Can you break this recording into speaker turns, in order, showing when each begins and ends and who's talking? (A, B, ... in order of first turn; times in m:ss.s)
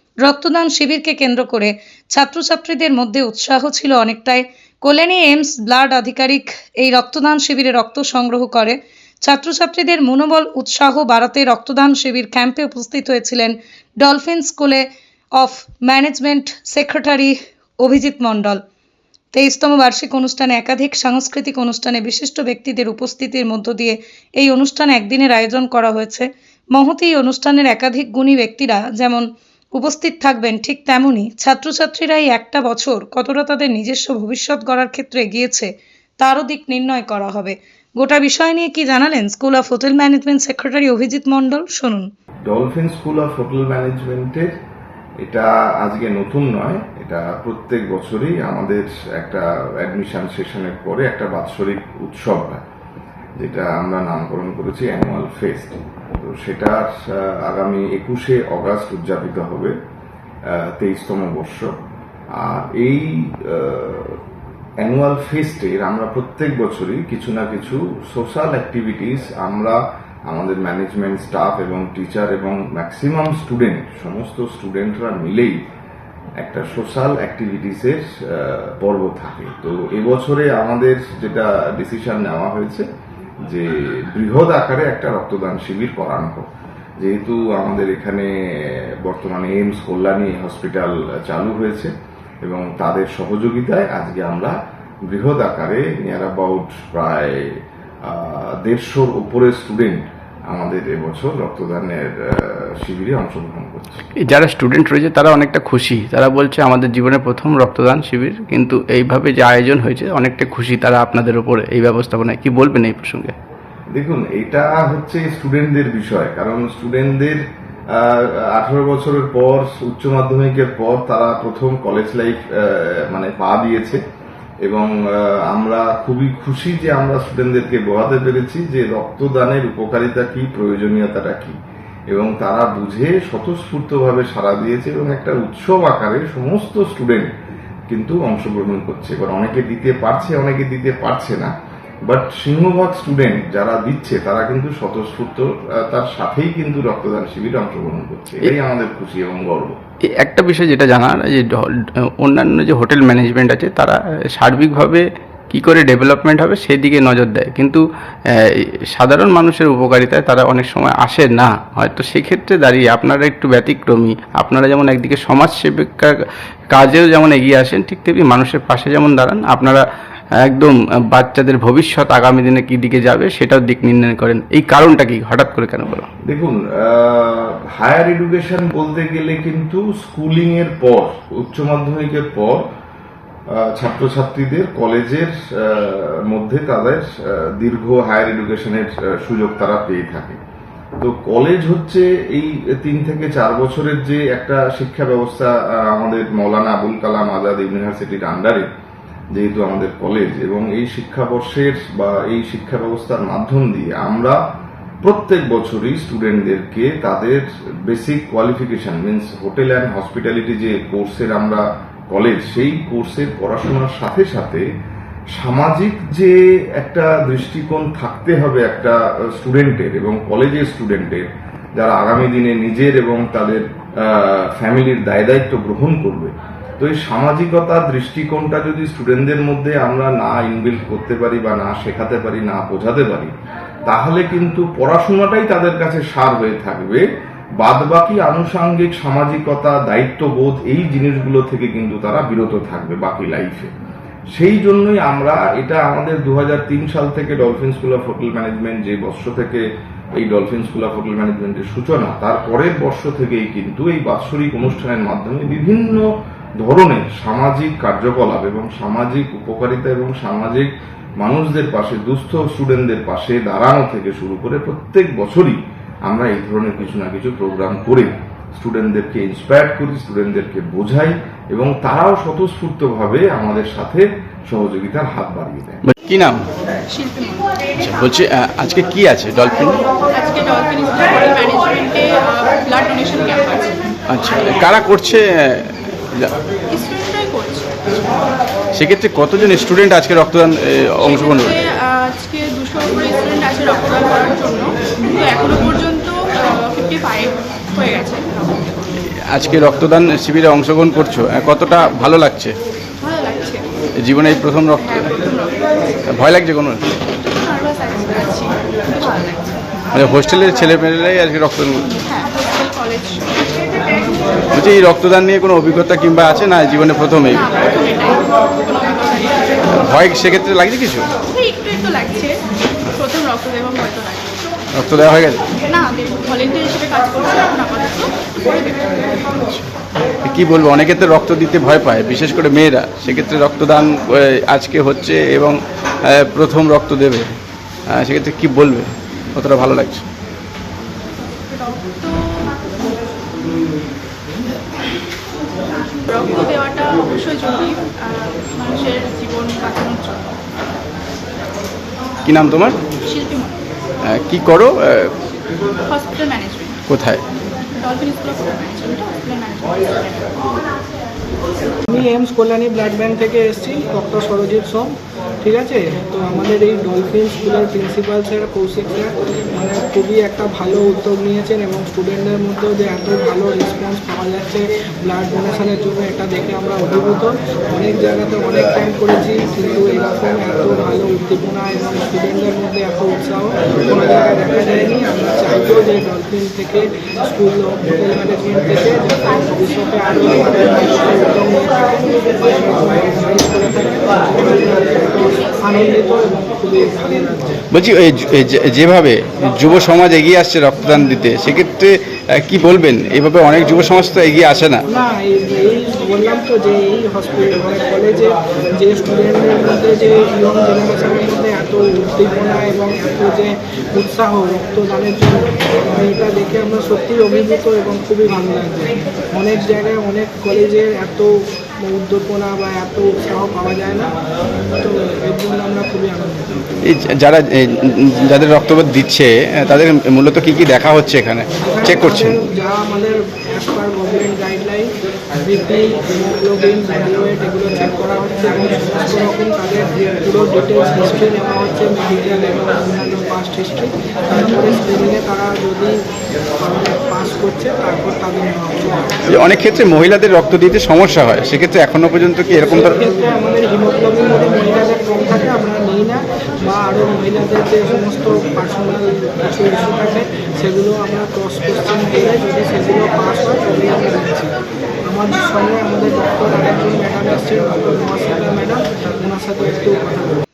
0:00.2-0:18.6 A
0:19.3-0:42.1 A
0:42.5-0:44.5 B
0:45.2-0:52.6 B
0:53.4-0:59.7 B
1:00.5-1:01.7 B
1:02.4-1:04.2 B
1:04.8-1:09.8 B
1:10.3-1:15.6 B
1:16.4-1:22.9 B
1:23.5-1:26.5 B
1:27.0-1:31.9 B
1:32.4-1:34.5 B
1:35.1-1:37.5 B
1:38.0-1:44.0 B
1:44.2-1:53.3 C
1:53.9-1:57.4 B
1:58.0-2:04.0 B
2:04.6-2:11.6 B
2:12.1-2:17.3 B
2:17.9-2:21.5 B
2:22.1-2:29.8 B
2:30.2-2:31.6 C
2:32.2-2:37.8 C
2:38.9-2:46.1 C
2:46.7-2:49.8 C
2:50.4-2:56.1 C
2:56.3-3:02.6 B
3:03.6-3:10.4 B
3:11.0-3:18.6 B
3:19.3-3:24.4 B
3:25.0-3:34.6 B
3:35.4-3:41.2 B
3:41.8-3:53.3 B
3:53.9-3:57.0 B
3:57.6-4:03.7 B
4:04.3-4:09.6 B
4:10.2-4:16.0 B
4:16.6-4:20.7 B
4:21.2-4:35.8 B
4:35.8-4:36.4 C
4:36.9-4:37.6 D
4:37.8-4:39.8 C
4:40.1-4:43.9 D
4:44.1-4:46.3 C
4:46.7-4:47.7 D
4:48.8-4:51.6 C
4:51.0-4:58.9 D
4:59.3-5:02.5 C
5:03.0-5:03.6 D
5:04.0-5:05.1 C
5:04.2-5:06.2 D
5:06.1-5:06.8 C
5:07.1-5:09.9 D
5:09.9-5:11.8 C
5:12.0-5:13.6 D
5:14.5-5:17.4 C
5:17.3-5:19.8 D
5:19.7-5:21.1 C
5:21.3-5:24.4 D
5:24.8-5:25.4 C
5:25.7-5:29.0 D
5:29.3-5:29.7 C
5:30.2-5:35.6 C
5:36.1-5:37.3 C
5:37.9-5:40.1 C
5:41.4-5:43.4 D
5:45.8-5:50.4 D
5:52.2-5:52.8 C
5:53.0-5:53.6 D
5:54.1-5:55.1 C
5:55.9-5:56.8 D
5:56.9-5:57.2 C
5:57.7-6:00.4 D
6:01.9-6:04.9 E
6:05.4-6:37.5 E
6:37.7-6:41.9 C
6:42.4-6:44.8 C
6:44.9-7:01.3 E
7:01.8-7:04.1 E
7:04.8-7:06.7 E
7:06.8-7:07.6 C
7:08.2-7:12.4 C
7:11.6-7:26.0 E
7:26.6-7:29.1 E
7:29.3-7:33.0 C
7:32.6-7:44.5 E
7:45.0-7:50.4 E